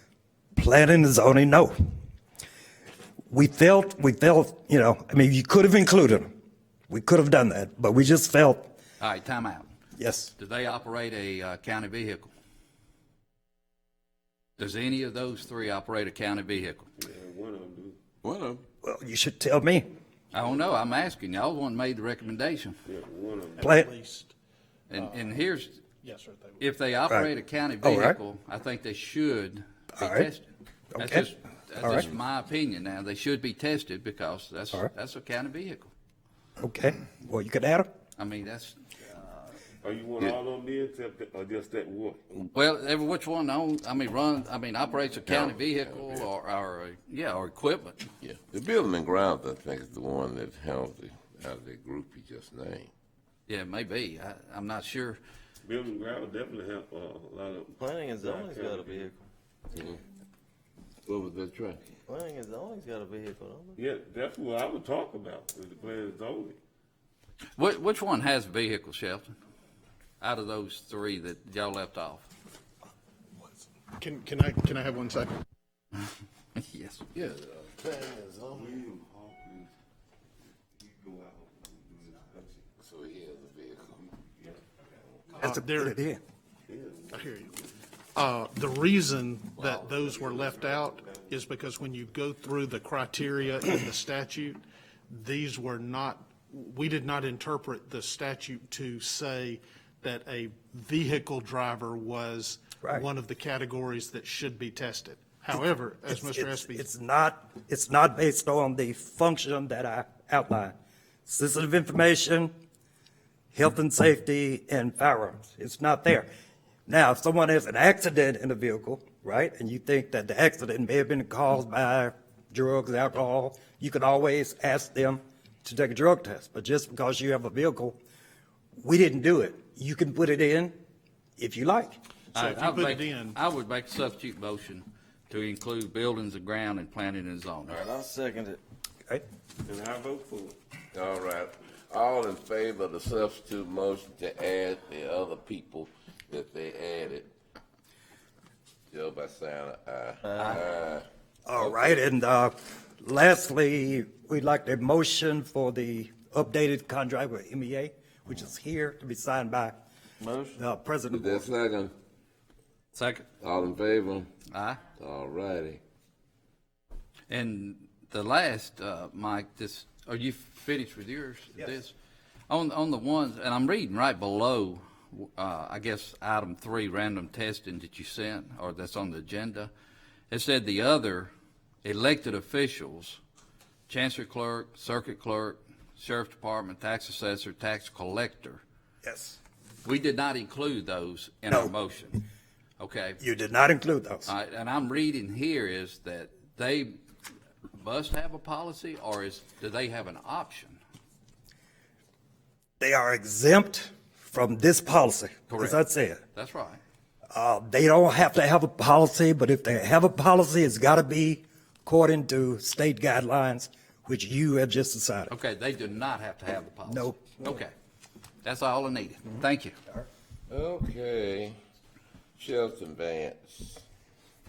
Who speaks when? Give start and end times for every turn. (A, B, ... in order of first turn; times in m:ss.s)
0:00.6-0:01.7 A
0:03.3-0:06.3 A
0:06.9-0:08.7 A
0:09.0-0:09.7 B
0:10.0-0:10.3 A
0:10.4-0:12.3 B
0:14.6-0:16.9 B
0:17.0-0:18.0 C
0:18.2-0:18.6 D
0:18.8-0:19.9 A
0:20.3-0:22.8 B
0:22.8-0:23.7 C
0:23.6-0:24.3 E
0:23.6-0:23.9 A
0:24.9-0:25.8 B
0:25.0-0:25.3 E
0:26.0-0:26.6 E
0:26.6-0:30.4 B
0:27.8-0:28.2 A
0:30.0-0:30.3 A
0:30.9-0:31.3 A
0:31.0-0:35.9 B
0:36.6-0:37.9 A
0:38.2-0:39.6 B
0:39.8-0:42.2 C
0:42.5-0:48.0 B
0:45.2-0:46.2 D
0:48.2-0:52.9 D
0:53.5-0:55.2 B
0:55.6-0:59.1 C
0:57.8-0:59.2 F
0:59.7-1:00.0 D
1:01.0-1:01.8 D
1:02.1-1:03.8 F
1:03.8-1:06.6 C
1:07.6-1:09.3 B
1:10.2-1:12.3 B
1:14.0-1:15.3 E
1:16.6-1:17.0 B
1:17.1-1:18.0 D
1:18.4-1:19.7 C
1:20.8-1:22.7 C
1:22.8-1:24.0 D
1:25.4-1:26.2 A
1:25.4-1:26.0 E
1:26.7-1:27.2 C
1:27.1-1:27.5 E
1:28.1-1:34.6 E
1:29.7-1:31.3 C
1:35.1-1:46.9 E
1:46.1-1:50.7 A
1:51.2-1:52.5 A
1:53.5-1:56.3 A
1:56.8-2:08.0 A
2:08.8-2:10.7 A
2:11.4-2:11.9 A
2:12.3-2:13.4 E
2:12.3-2:17.8 B
2:17.7-2:18.6 F
2:19.6-2:20.6 C
2:20.9-2:27.3 D
2:28.9-2:31.1 D
2:30.2-2:30.6 F
2:31.4-2:39.8 A
2:40.2-2:40.6 F
2:40.5-2:41.5 A
2:41.1-2:41.9 D
2:42.9-2:43.3 B
2:43.4-2:44.3 D
2:44.5-2:44.8 B
2:45.0-2:45.8 D
2:47.3-2:51.9 B
2:52.5-2:59.7 B
3:00.3-3:01.3 B
3:01.8-3:03.2 B
3:03.9-3:08.6 B
3:09.0-3:09.4 A
3:09.8-3:12.2 B
3:12.8-3:13.2 B
3:13.2-3:14.3 A
3:14.2-3:16.9 B
3:17.8-3:20.8 B
3:22.8-3:26.2 A
3:25.5-3:25.8 B
3:26.3-3:26.8 B
3:27.3-3:35.3 A
3:35.3-3:37.7 B
3:36.9-3:37.6 A
3:38.4-3:39.8 B
3:40.5-3:41.6 D
3:42.4-3:43.8 D